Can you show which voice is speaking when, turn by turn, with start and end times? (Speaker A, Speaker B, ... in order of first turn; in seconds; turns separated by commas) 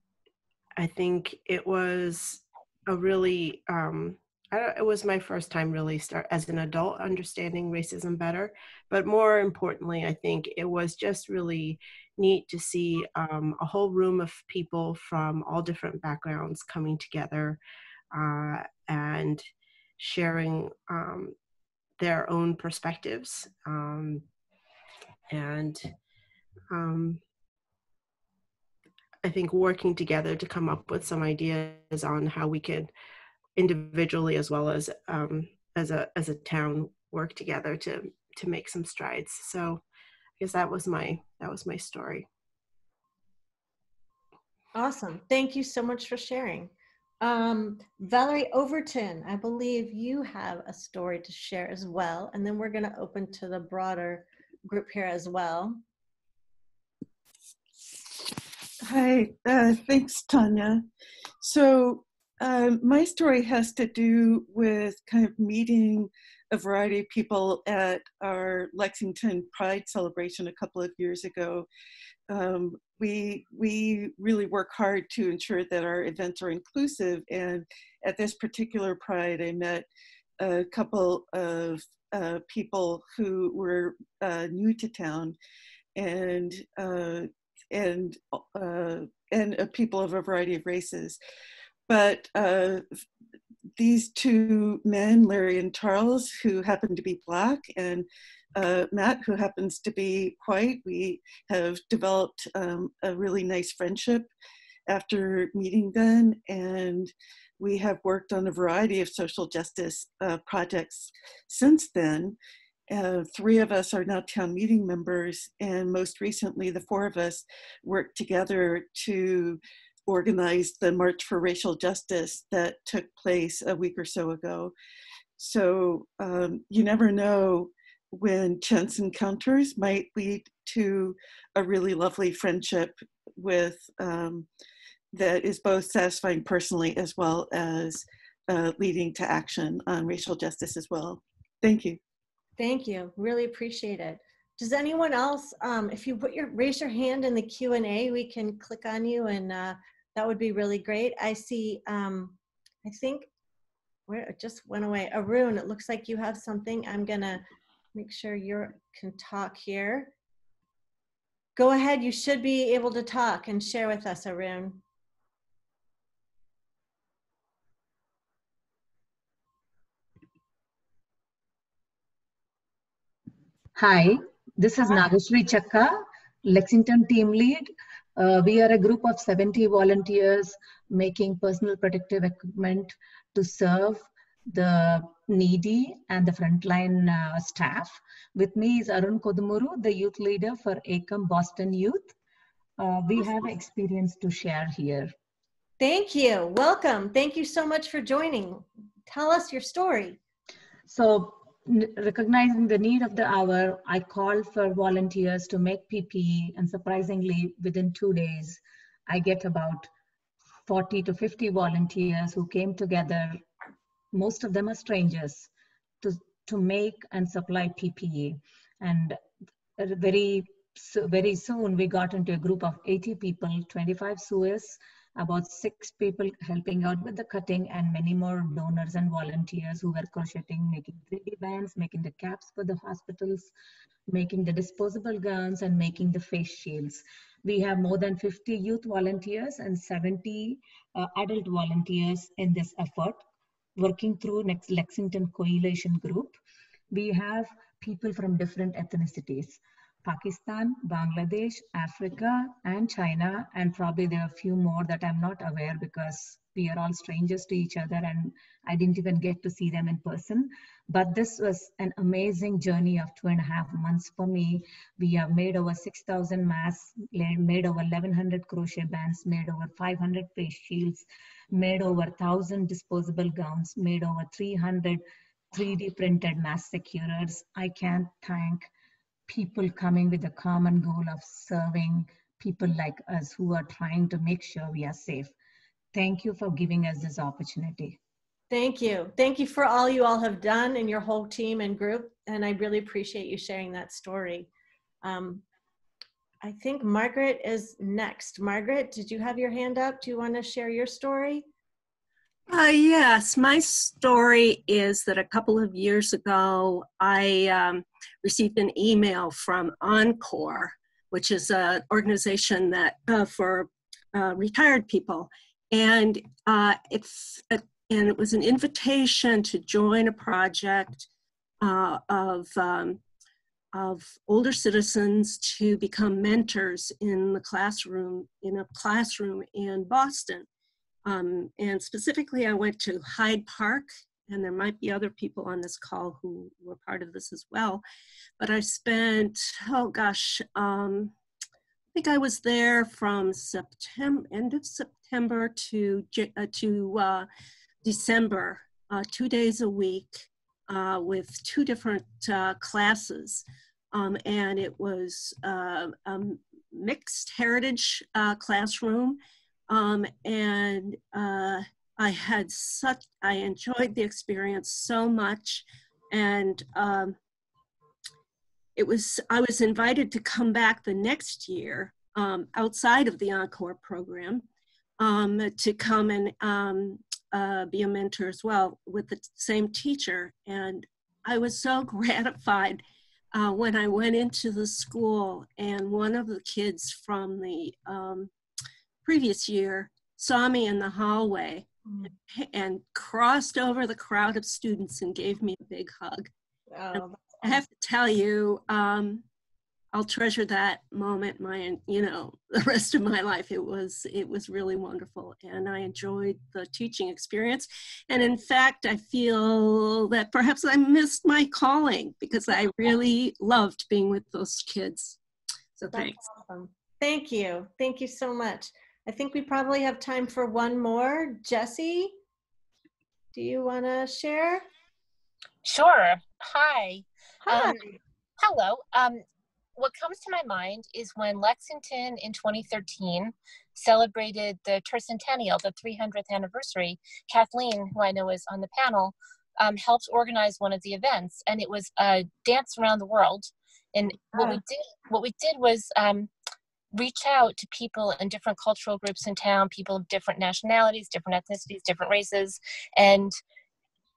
Speaker A: 0.8-17.6, Speaker A: 18.1-19.4, Speaker A: 20.0-21.3, Speaker A: 22.0-24.2, Speaker A: 25.3-25.9, Speaker A: 26.7-27.2, Speaker A: 29.2-32.9, Speaker A: 33.6-39.8, Speaker A: 40.4-42.3, Speaker B: 44.8-55.8, Speaker C: 58.9-60.9, Speaker C: 61.4-71.7, Speaker C: 72.3-79.9, Speaker C: 80.4-85.4, Speaker C: 86.0-91.2, Speaker C: 91.9-92.8, Speaker C: 93.8-104.3, Speaker C: 104.9-112.4, Speaker C: 112.9-124.7, Speaker C: 125.4-134.5, Speaker C: 135.1-142.0, Speaker B: 142.6-153.3, Speaker B: 154.1-157.4, Speaker B: 157.9-160.1, Speaker B: 161.6-164.8, Speaker D: 173.8-192.1, Speaker D: 192.8-195.1, Speaker B: 195.8-200.2, Speaker D: 200.9-209.9, Speaker D: 210.7-213.4, Speaker D: 214.1-215.5, Speaker D: 216.0-219.2, Speaker D: 219.8-233.5, Speaker D: 234.1-243.2, Speaker D: 243.8-246.4, Speaker D: 246.9-275.0, Speaker D: 275.5-278.7, Speaker D: 279.3-285.3, Speaker D: 285.9-288.0, Speaker B: 288.5-294.5, Speaker B: 295.0-295.4, Speaker B: 296.4-301.4, Speaker E: 302.5-321.1, Speaker E: 321.6-323.0, Speaker E: 323.7-330.5, Speaker E: 331.1-337.8, Speaker E: 338.4-341.1, Speaker E: 341.9-347.3, Speaker E: 347.8-359.2, Speaker E: 359.7-367.2, Speaker E: 368.8-374.4, Speaker E: 375.0-382.8, Speaker E: 383.3-388.3, Speaker E: 389.1-391.7, Speaker E: 392.3-396.3, Speaker B: 396.7-397.6, Speaker E: 396.9-399.2, Speaker E: 399.9-415.2, Speaker E: 415.8-416.2, Speaker B: 415.9-422.2, Speaker B: 423.3-424.6, Speaker F: 425.6-429.2, Speaker B: 427.4-427.8, Speaker F: 429.8-446.3, Speaker B: 444.3-444.6, Speaker F: 446.9-453.4